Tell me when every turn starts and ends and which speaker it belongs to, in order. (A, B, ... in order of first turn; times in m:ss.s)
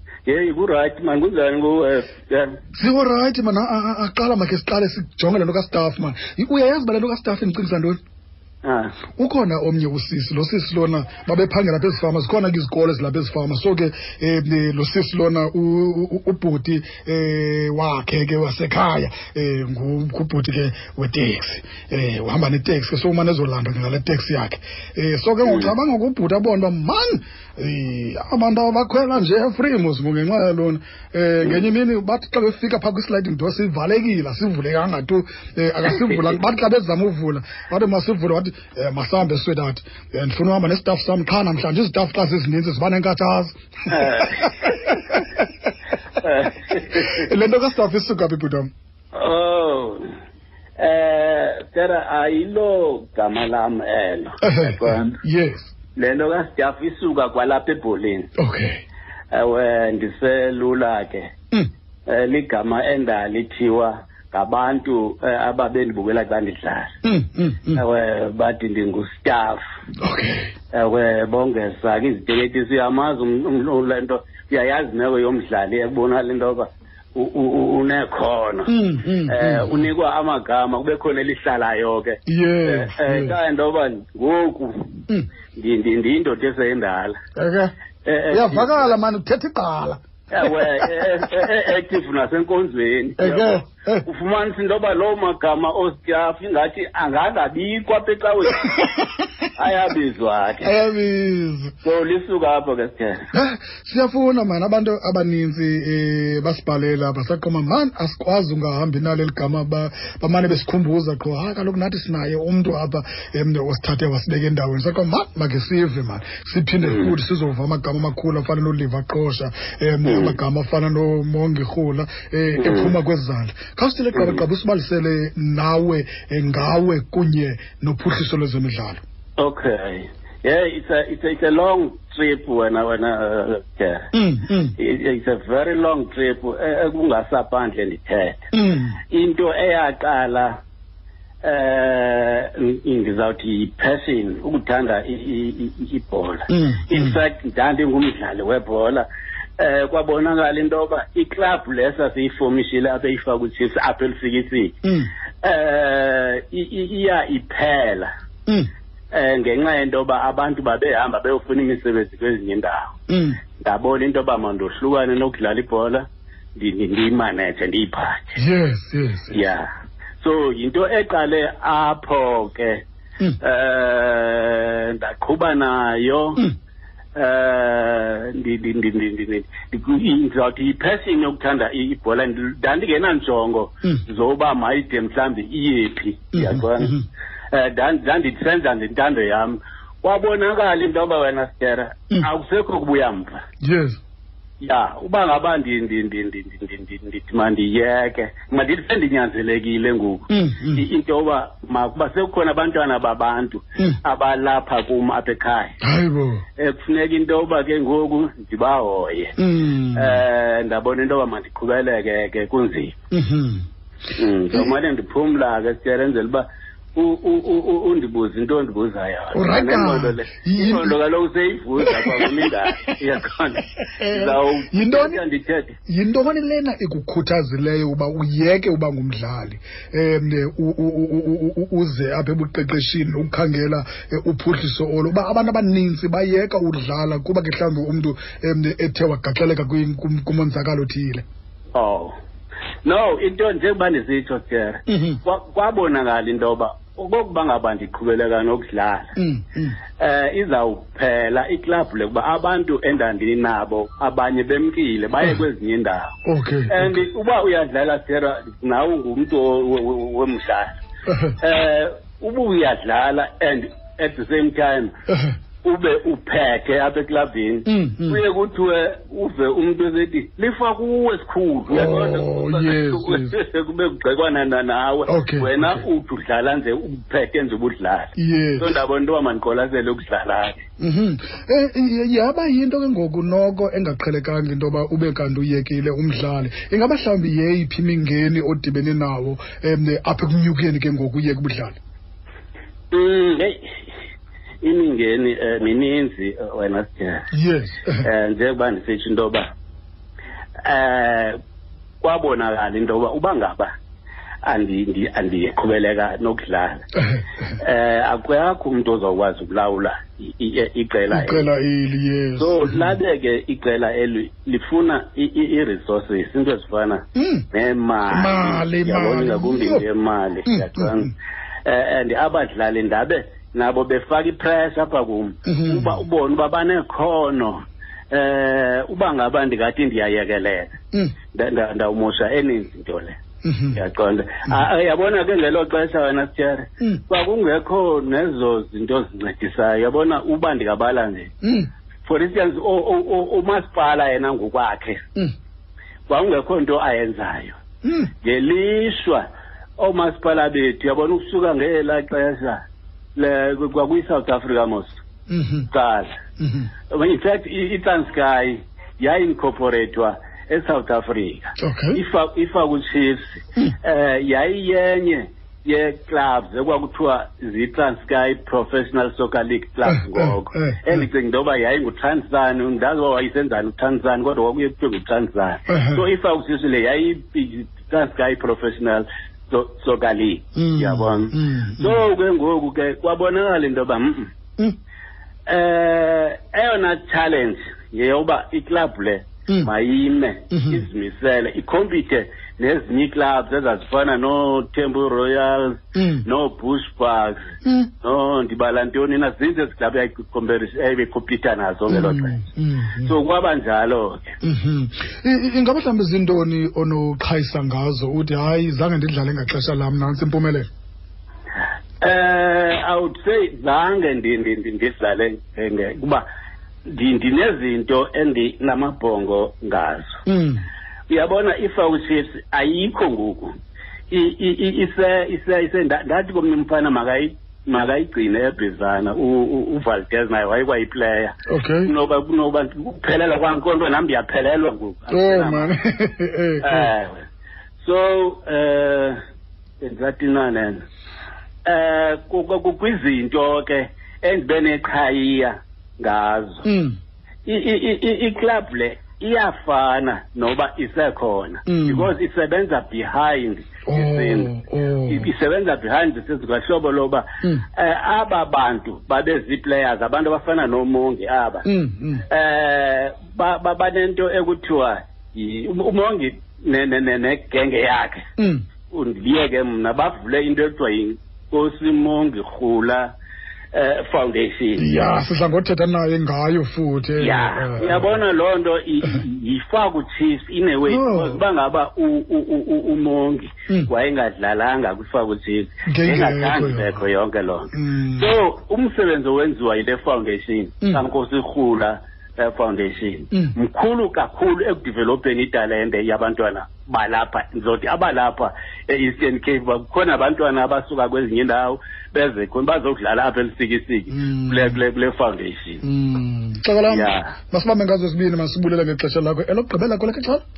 0:00.3-0:02.6 A
0:02.7-0:08.0 B
0:08.6-0:09.0 A
0:09.2-0:45.7 B
0:25.4-0:25.7 A
0:43.9-0:44.8 A
0:46.2-0:47.3 A
0:46.7-0:48.7 B
0:49.2-0:50.0 A
0:50.8-0:55.1 A
0:54.4-0:55.7 B
0:56.0-0:58.3 A
0:58.4-0:58.8 B
0:59.3-1:01.3 A
1:02.1-1:06.9 A
1:07.0-1:07.8 B
1:07.7-1:09.6 A
1:10.0-1:10.5 B
1:10.7-1:18.7 A
1:18.7-1:19.8 B
1:19.2-1:25.0 A
1:22.3-1:23.4 B
1:25.6-1:27.2 A
1:27.4-1:27.7 B
1:28.0-1:28.9 A
1:28.3-1:31.4 B
1:30.3-1:38.8 A
1:33.2-1:34.0 B
1:38.6-1:39.2 B
1:39.6-1:40.7 A
1:40.6-1:41.8 B
1:41.8-1:43.2 A
1:43.3-2:09.0 B
1:56.8-1:57.1 A
2:00.0-2:00.4 A
2:02.6-2:02.9 A
2:04.1-2:04.4 A
2:09.4-2:14.1 A
2:14.1-2:14.8 B
2:14.8-2:18.5 A
2:18.5-2:19.0 B
2:19.1-2:20.6 A
2:21.4-2:29.1 A
2:26.5-2:27.2 B
2:29.6-2:34.8 A
2:34.8-2:35.1 B
2:35.4-2:38.1 A
2:39.1-2:42.9 A
2:43.1-2:43.4 B
2:43.6-2:46.0 A
2:46.6-2:48.4 A
2:48.4-2:49.5 B
2:49.3-2:49.7 A
2:50.2-2:52.8 A
2:53.4-2:56.4 A
2:57.2-3:06.9 A
3:06.3-3:07.0 B
3:07.5-3:13.4 A
3:13.6-3:14.0 B
3:14.6-3:25.8 A
3:20.3-3:20.9 B
3:25.8-3:26.4 B
3:26.6-3:29.4 A
3:29.4-3:30.2 B
3:30.0-3:33.0 A
3:33.1-3:33.6 B
3:34.2-3:45.8 A
3:39.3-3:40.9 B
3:41.8-3:42.5 B
3:43.8-3:45.2 B
3:45.9-4:01.2 B
4:01.8-4:02.1 A
4:02.8-4:09.1 A
4:04.9-4:05.2 B
4:09.2-4:09.8 B
4:10.0-4:16.1 A
4:16.3-4:17.0 B
4:16.7-4:20.7 A
4:21.1-4:21.4 B
4:21.4-4:24.9 A
4:25.1-4:25.3 B
4:25.6-4:40.6 A
4:27.7-4:28.2 B
4:31.7-4:33.4 B
4:35.1-4:35.8 B
4:38.2-4:38.8 B
4:40.8-4:51.8 B
4:52.9-4:53.7 A
4:54.6-4:57.3 A
4:57.3-4:58.1 B
4:58.0-4:59.5 A
5:00.6-5:01.4 A
5:02.0-5:03.7 A
5:04.4-5:06.8 A
5:07.0-5:07.4 B
5:07.6-5:11.5 A
5:11.1-5:13.0 B
5:12.4-5:21.1 A
5:17.2-5:17.5 B
5:18.1-5:19.8 B
5:20.5-5:21.1 B
5:21.7-5:27.6 A
5:25.5-5:26.0 B
5:28.1-5:30.8 A
5:31.3-5:33.2 A
5:33.4-5:33.8 B
5:33.8-5:41.3 A
5:41.4-5:41.7 B
5:42.1-5:45.0 A
5:46.1-5:47.6 A
5:47.8-5:48.1 B
5:48.2-5:49.2 A
5:49.8-5:52.6 A
5:53.2-5:55.0 A
5:55.3-5:55.7 B
5:55.7-5:56.1 A
5:56.4-5:56.7 B
5:56.9-6:24.3 A
6:01.6-6:02.0 B
6:09.9-6:11.0 B
6:15.7-6:16.0 B
6:20.6-6:22.0 B
6:25.5-6:37.5 A
6:30.5-6:30.8 B
6:36.0-6:36.3 B
6:37.6-6:37.9 B
6:38.0-6:42.4 A
6:41.9-6:43.2 B
6:43.0-6:44.4 A
6:44.4-6:50.7 B
6:52.0-6:56.2 A
6:56.9-7:00.2 A
7:00.3-7:00.6 B
7:01.1-7:03.5 A
7:04.1-7:15.7 A
7:11.5-7:11.9 B
7:15.1-7:16.9 B
7:16.6-7:17.2 A
7:17.8-7:19.2 A
7:19.8-7:20.8 A
7:21.7-7:26.6 A
7:26.6-7:27.0 B
7:27.5-7:34.5 A
7:31.7-7:32.1 B
7:33.9-7:35.3 B
7:35.1-7:41.6 A
7:41.6-7:42.3 B
7:42.3-7:48.3 A
7:48.4-7:48.6 B
7:48.9-7:53.1 A
7:53.7-7:54.8 A
7:54.8-7:58.2 B
7:57.2-8:25.8 A
8:00.9-8:01.4 B
8:05.9-8:07.0 B
8:07.7-8:08.3 B
8:24.1-8:24.8 B
8:25.8-8:30.4 B
8:26.9-8:27.2 A